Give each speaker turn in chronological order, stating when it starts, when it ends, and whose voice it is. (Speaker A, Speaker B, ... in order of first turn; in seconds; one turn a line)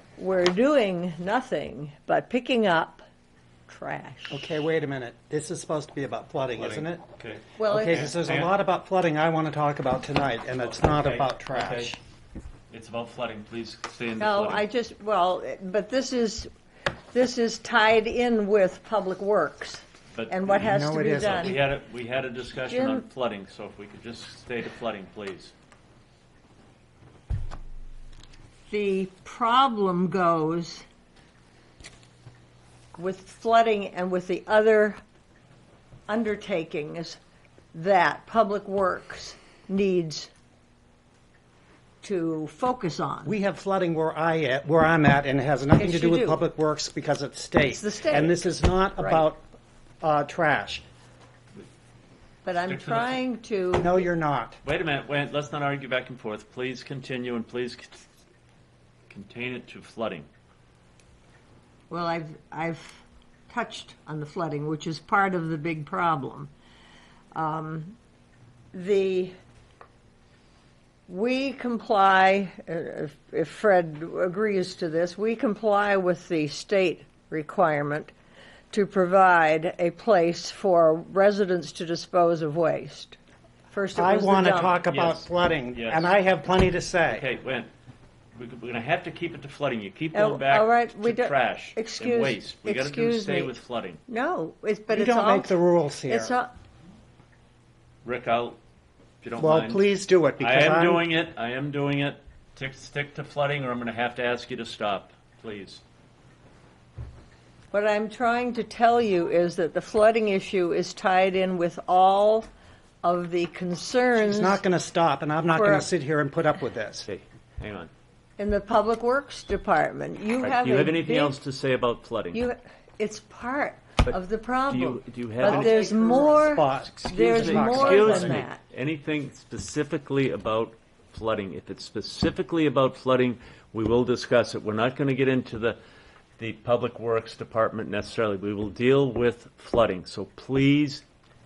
Speaker A: 0.2-3.0
Speaker A: 3.7-4.4
Speaker B: 4.3-7.0
Speaker C: 6.6-8.5
Speaker A: 7.6-8.2
Speaker B: 7.6-12.0
Speaker C: 10.6-11.9
Speaker C: 12.7-14.7
Speaker A: 14.2-16.5
Speaker A: 17.1-21.6
Speaker C: 20.1-20.4
Speaker B: 20.6-21.6
Speaker C: 21.2-25.5
Speaker A: 22.5-23.0
Speaker A: 28.7-30.9
Speaker A: 33.0-35.0
Speaker A: 36.1-37.2
Speaker A: 37.7-40.3
Speaker A: 42.0-43.4
Speaker B: 43.3-49.4
Speaker A: 45.7-46.4
Speaker A: 47.6-48.5
Speaker A: 49.0-49.3
Speaker B: 50.0-50.8
Speaker A: 52.4-54.0
Speaker C: 52.7-53.2
Speaker B: 53.8-54.6
Speaker C: 54.6-58.0
Speaker C: 59.1-60.3
Speaker A: 61.9-66.5
Speaker A: 67.3-68.0
Speaker A: 68.7-69.3
Speaker A: 71.1-78.1
Speaker A: 78.7-83.2
Speaker A: 83.7-84.9
Speaker B: 84.0-87.3
Speaker C: 84.9-86.2
Speaker C: 87.1-87.7
Speaker C: 88.3-94.0
Speaker A: 90.1-93.6
Speaker A: 94.1-95.5
Speaker B: 94.9-96.4
Speaker A: 96.1-96.5
Speaker C: 98.0-98.6
Speaker C: 99.2-99.8
Speaker B: 99.4-101.0
Speaker C: 100.4-105.8
Speaker A: 107.7-112.5
Speaker A: 113.0-114.6
Speaker B: 114.2-117.1
Speaker A: 115.5-115.9
Speaker C: 117.1-117.9
Speaker A: 118.4-121.4
Speaker C: 120.4-122.5
Speaker A: 122.3-128.6
Speaker C: 124.0-125.9
Speaker B: 125.4-128.5
Speaker C: 126.6-135.8
Speaker C: 136.4-141.0